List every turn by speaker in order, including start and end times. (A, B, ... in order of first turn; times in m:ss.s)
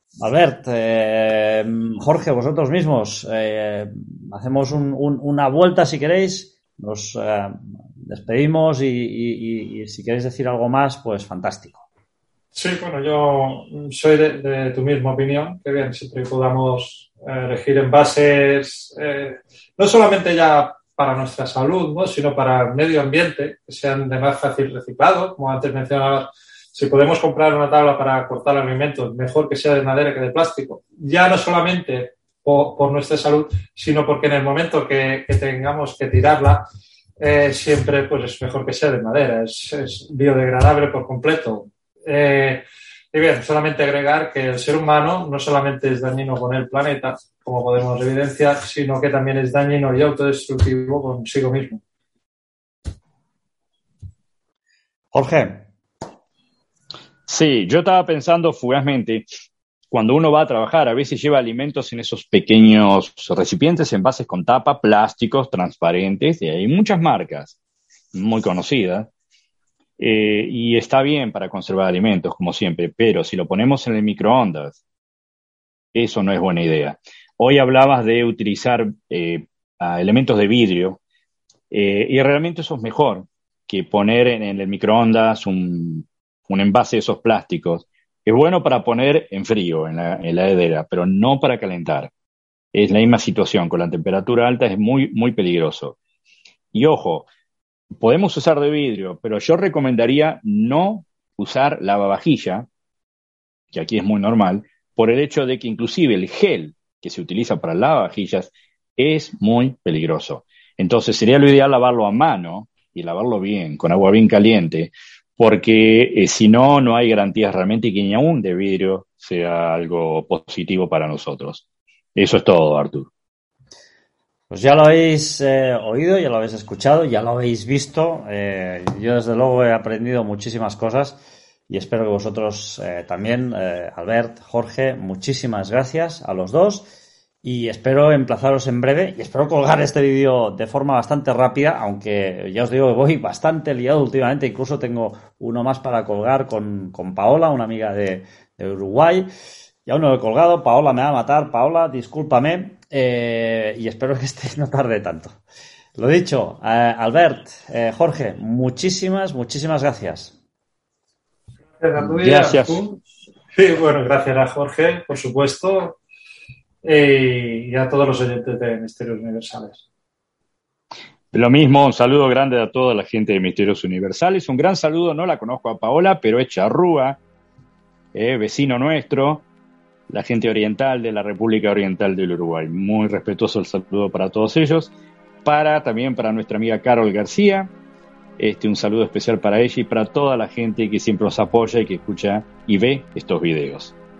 0:00.2-0:11.8 A
0:12.5-0:36.6 B
0:37.2-0:51.8 B
0:55.1-0:55.6 A
0:57.3-0:59.2 C
0:59.9-1:07.6 C
1:08.1-1:09.1 C
1:10.0-1:14.8 C
1:15.9-1:21.0 C
1:21.7-1:32.1 C
1:32.7-1:36.0 C
1:36.7-1:37.3 C
1:38.0-1:42.7 C
1:43.7-2:01.6 C
2:02.2-2:03.1 C
2:04.5-2:11.2 A
2:11.7-2:16.9 A
2:17.4-2:29.3 A
2:29.8-2:35.4 A
2:36.0-2:40.4 A
2:41.8-2:43.0 B
2:42.0-2:42.8 C
2:43.5-2:46.0 B
2:46.8-2:49.8 B
2:51.3-2:57.2 C
2:58.1-2:59.4 C
3:00.1-3:04.9 C
3:05.4-3:07.7 C
3:08.4-3:13.9 C